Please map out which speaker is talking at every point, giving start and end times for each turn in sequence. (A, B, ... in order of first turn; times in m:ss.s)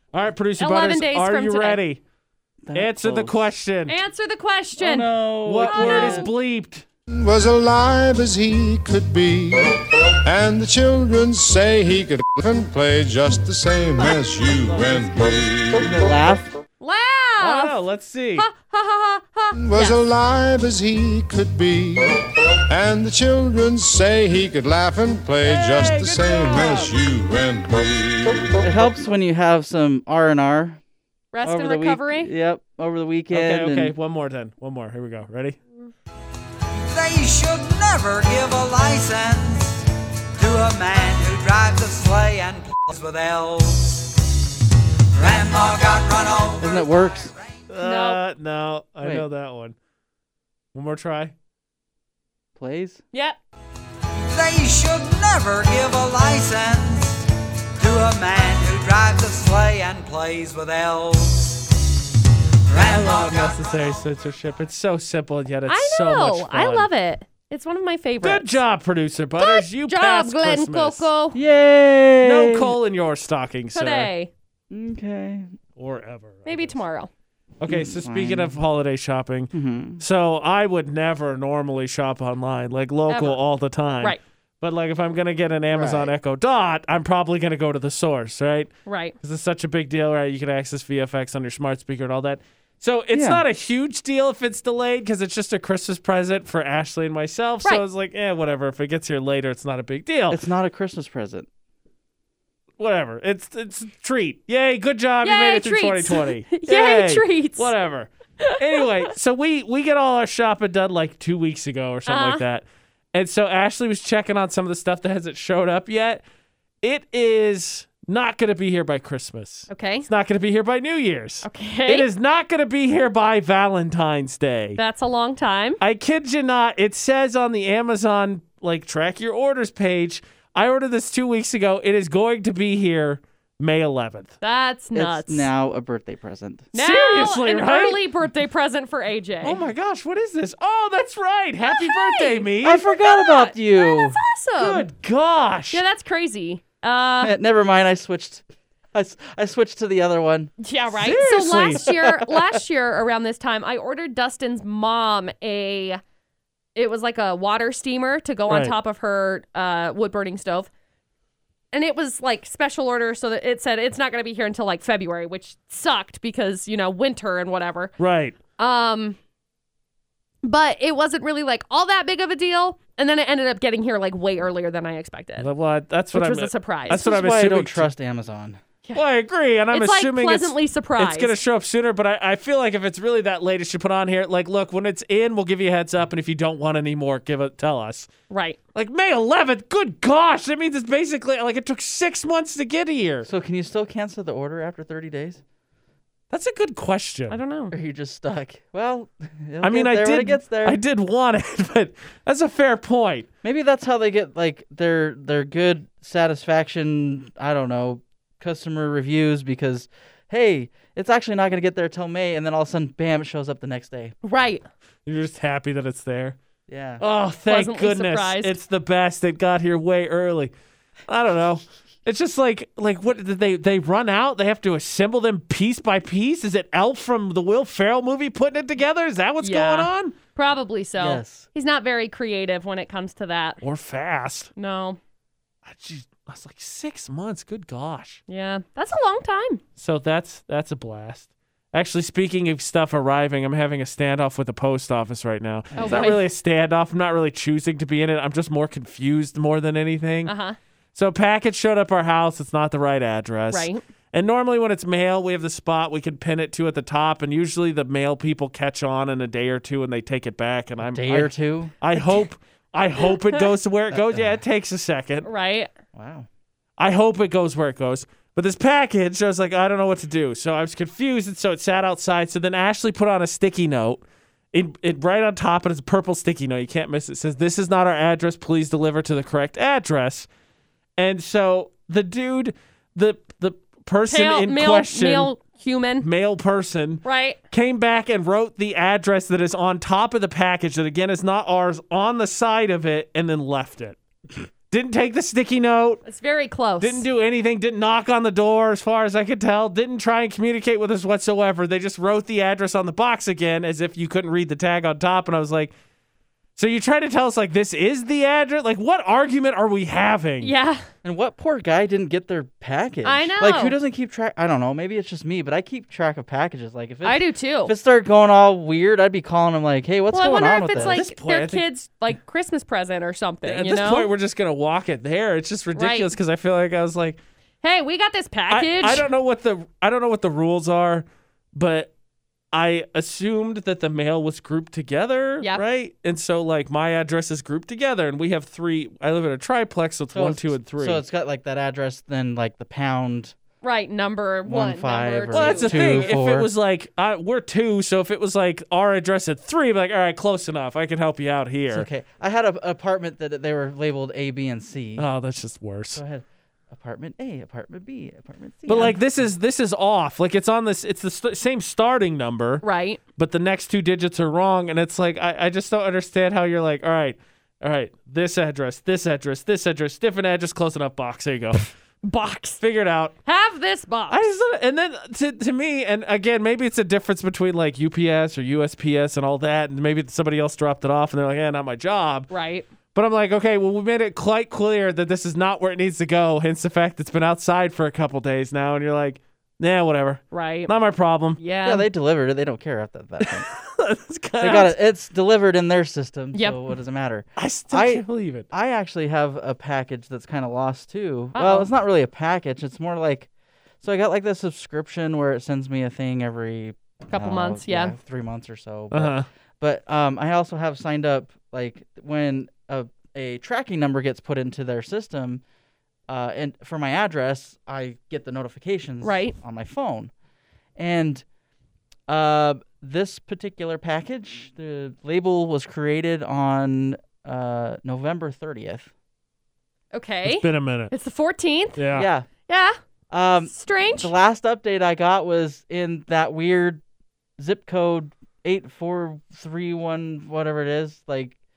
0:00.1-0:02.0 A
0:00.6-0:01.8 B
0:02.6-0:03.5 C
0:02.7-0:04.0 A
0:03.9-0:05.1 B
0:04.8-0:06.3 C
0:05.4-0:06.8 A
0:05.6-0:06.2 B
0:07.1-0:15.9 D
0:14.4-0:15.4 A
0:15.8-0:16.6 C
0:16.8-0:17.8 B
0:17.4-0:18.5 A
0:18.4-0:20.0 B
0:19.5-0:28.5 D
0:25.4-0:27.0 A
0:28.6-0:30.8 C
0:31.3-0:32.3 B
0:31.4-0:33.9 C
0:33.3-0:35.6 A
0:36.8-0:44.2 E
0:45.1-0:47.1 E
0:46.6-0:47.3 C
0:47.7-0:49.8 A
0:47.8-0:48.2 B
0:50.7-0:51.3 A
0:52.6-0:53.0 C
0:54.3-1:01.6 E
1:02.7-1:03.6 E
1:02.8-1:06.9 A
1:05.7-1:08.6 B
1:08.2-1:11.1 A
1:09.4-1:11.4 B
1:11.3-1:12.8 C
1:12.2-1:14.1 A
1:13.7-1:14.3 B
1:14.7-1:15.5 C
1:15.8-1:16.8 A
1:16.4-1:17.1 B
1:17.6-1:40.4 A
1:17.7-1:18.6 C
1:19.5-1:20.0 C
1:23.1-1:23.4 B
1:25.7-1:26.1 C
1:28.8-1:29.1 B
1:33.1-1:33.4 C
1:40.3-1:41.5 C
1:42.8-1:56.2 A
1:45.2-1:47.7 B
1:48.4-1:48.8 B
1:52.1-1:52.4 B
1:56.8-2:04.8 A
1:59.7-2:00.1 B
2:01.4-2:02.1 B
2:04.8-2:05.8 B
2:05.8-2:14.3 A
2:14.4-2:15.5 B
2:14.9-2:16.7 C
2:16.7-2:19.6 B
2:16.7-2:18.0 A
2:19.4-2:22.8 A
2:21.7-2:24.8 B
2:22.6-2:24.2 C
2:24.6-2:25.8 A
2:25.7-2:27.3 B
2:27.2-2:30.5 C
2:30.6-2:36.0 B
2:30.9-2:31.9 A
2:36.8-2:40.7 B
2:38.5-2:38.8 A
2:41.7-2:47.9 B
2:48.0-2:48.4 A
2:48.6-2:49.2 B
2:50.4-2:55.5 B
2:55.4-2:57.9 A
2:56.1-2:57.0 B
2:56.9-2:58.6 C
2:58.9-3:08.1 A
2:59.7-3:01.4 B
3:08.3-3:08.6 B
3:08.7-3:13.3 A
3:13.2-3:15.4 C
3:16.3-3:17.4 A
3:17.3-3:17.7 B
3:17.7-3:20.8 C
3:19.6-3:23.3 A
3:23.4-3:34.1 C
3:34.2-3:34.6 B
3:35.0-3:36.4 A
3:36.7-3:37.0 C
3:37.0-3:40.5 A
3:37.4-3:38.6 B
3:41.1-3:50.1 A
3:49.4-3:53.6 B
3:51.0-3:51.4 C
3:53.6-3:54.5 A
3:54.6-3:55.0 B
3:55.6-3:58.2 A
3:58.3-3:59.6 B
3:59.8-4:10.3 A
4:05.7-4:06.1 C
4:05.8-4:06.2 B
4:10.2-4:10.6 B
4:10.9-4:25.3 A
4:13.5-4:13.8 B
4:20.8-4:21.7 C
4:22.0-4:22.2 B
4:23.0-4:23.5 B
4:23.9-4:24.4 C
4:25.2-4:25.7 B
4:25.9-4:26.3 C
4:26.8-4:40.3 A
4:41.0-4:45.3 A
4:44.1-4:46.0 B
4:46.0-4:54.0 A
4:47.0-4:47.4 B
4:54.7-4:56.0 A
4:56.0-4:57.0 B
4:56.8-5:05.7 A
5:06.6-5:10.5 A
5:10.4-5:10.8 B
5:11.0-5:21.0 C
5:13.0-5:13.8 B
5:17.0-5:17.7 B
5:20.1-5:24.1 B
5:20.7-5:21.6 A
5:23.4-5:27.2 A
5:25.7-5:26.1 B
5:27.6-5:29.1 B
5:28.5-5:31.9 A
5:32.5-5:41.0 A
5:40.1-5:43.3 C
5:43.6-5:46.2 B
5:44.4-5:46.5 C
5:45.3-5:51.9 A
5:51.7-5:55.0 C
5:55.0-5:56.0 A
5:55.9-5:59.0 C
5:58.7-6:02.6 A
6:02.6-6:03.0 B
6:03.2-6:11.7 A
6:12.0-6:12.6 B
6:12.6-6:13.1 A
6:13.2-6:14.3 B
6:14.1-6:22.3 A
6:22.3-6:22.7 B
6:22.9-6:31.4 A
6:30.3-6:30.7 B
6:31.4-6:31.8 B
6:31.6-6:33.5 C
6:33.2-6:34.7 A
6:34.4-6:43.3 C
6:36.3-6:36.6 B
6:37.4-6:38.5 A
6:41.3-6:41.7 B
6:43.8-6:55.4 C
6:47.1-6:47.9 B
6:48.9-6:49.3 A
6:56.1-7:00.1 C
6:59.0-6:59.3 B
7:00.8-7:01.2 C
7:02.1-7:08.9 C
7:09.9-7:12.8 B
7:10.2-7:10.9 A
7:11.8-7:12.1 A
7:11.9-7:12.3 C
7:13.1-7:16.8 C
7:13.5-7:14.1 B
7:17.4-7:21.3 C